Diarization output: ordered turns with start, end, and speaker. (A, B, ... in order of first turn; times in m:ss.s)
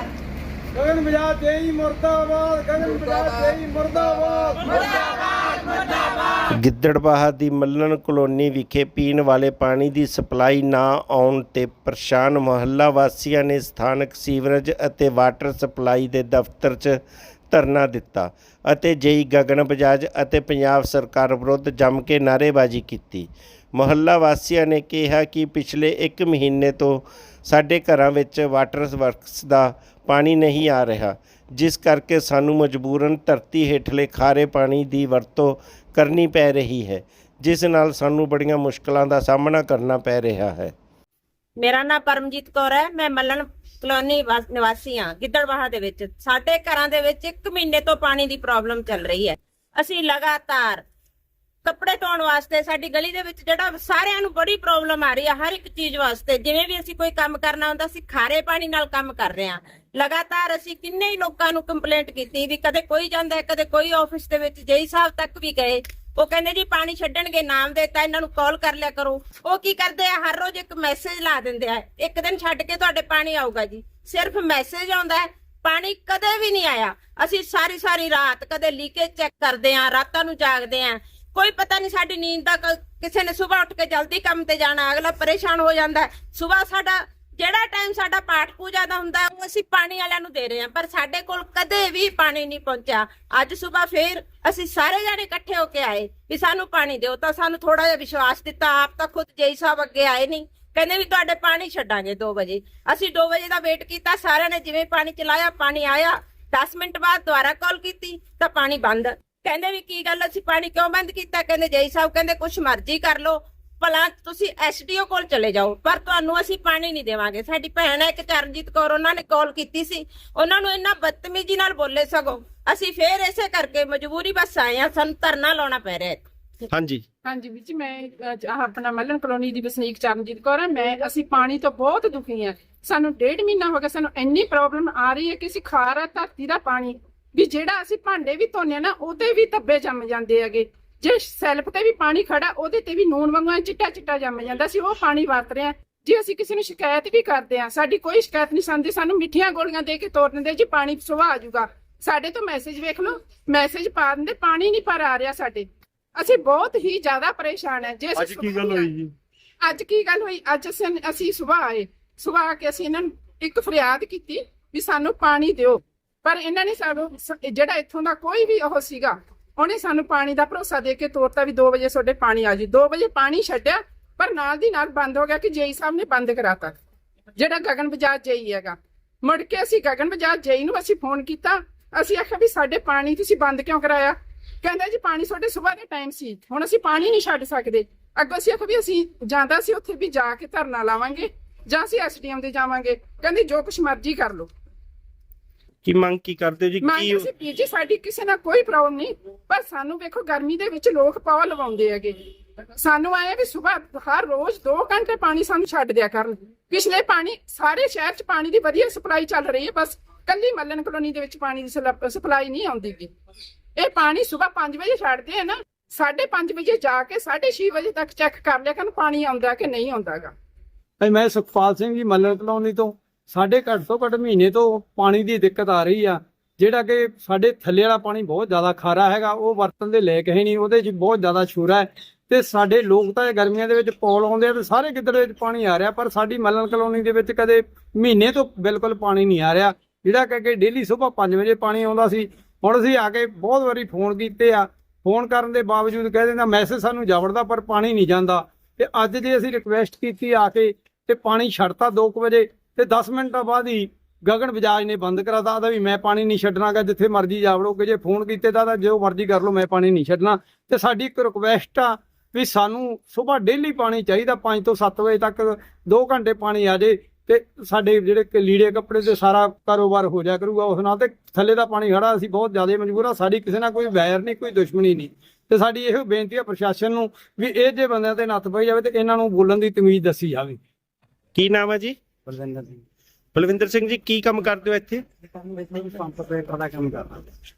0:00.7-0:04.8 A
0:06.5-0:17.0 B
0:17.5-0:40.7 B
0:41.6-0:50.8 C
0:51.6-2:06.2 C
2:06.7-2:07.0 B
2:07.2-2:38.9 D
2:38.2-2:39.1 B
2:39.6-2:56.8 D
2:57.4-3:14.5 D
3:15.8-3:17.3 B
3:16.8-3:22.2 D
3:22.8-3:33.1 D
3:33.8-3:40.3 D
3:41.0-4:40.6 A
4:41.4-4:42.0 B
4:42.3-4:42.8 A
4:43.3-4:45.0 B
4:45.5-4:47.2 A